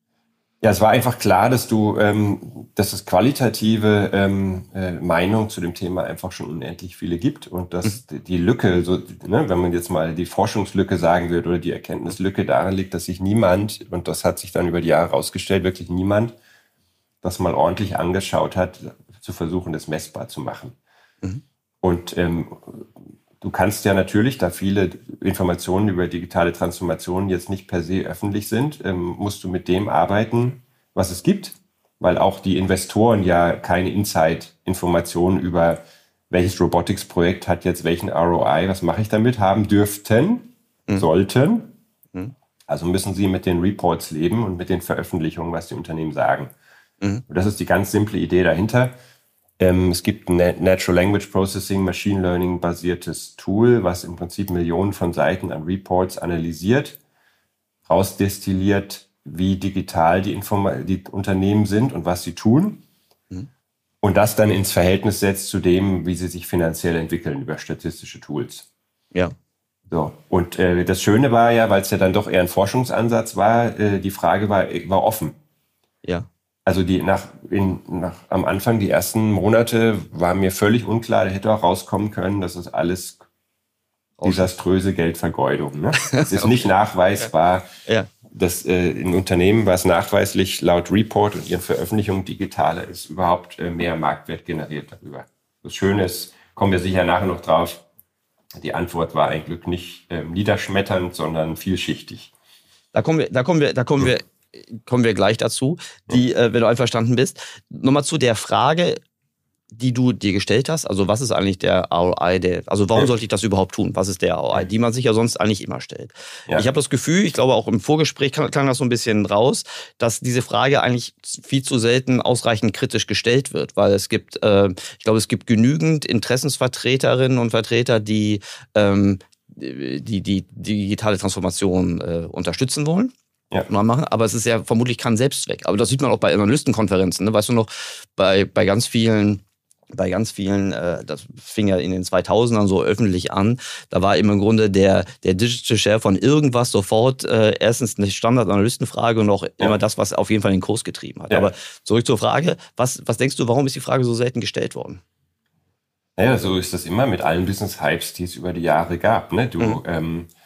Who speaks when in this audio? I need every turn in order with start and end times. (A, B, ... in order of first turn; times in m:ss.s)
0:00.6-0:16.4 A
0:17.2-0:20.8 A
0:21.8-0:41.8 A
0:42.7-0:46.5 A
0:47.3-0:49.0 A
0:49.6-0:57.0 A
0:57.9-1:02.8 A
1:04.0-1:08.7 A
1:09.9-1:15.4 A
1:16.7-1:23.2 A
1:24.2-1:24.5 B
1:24.2-1:27.7 A
1:26.0-1:26.7 B
1:27.9-1:28.1 B
1:28.3-1:37.8 A
1:38.6-1:42.3 A
1:42.9-1:49.0 B
1:49.7-2:13.1 B
2:13.7-2:19.4 B
2:19.9-2:35.0 B
2:36.2-2:40.3 A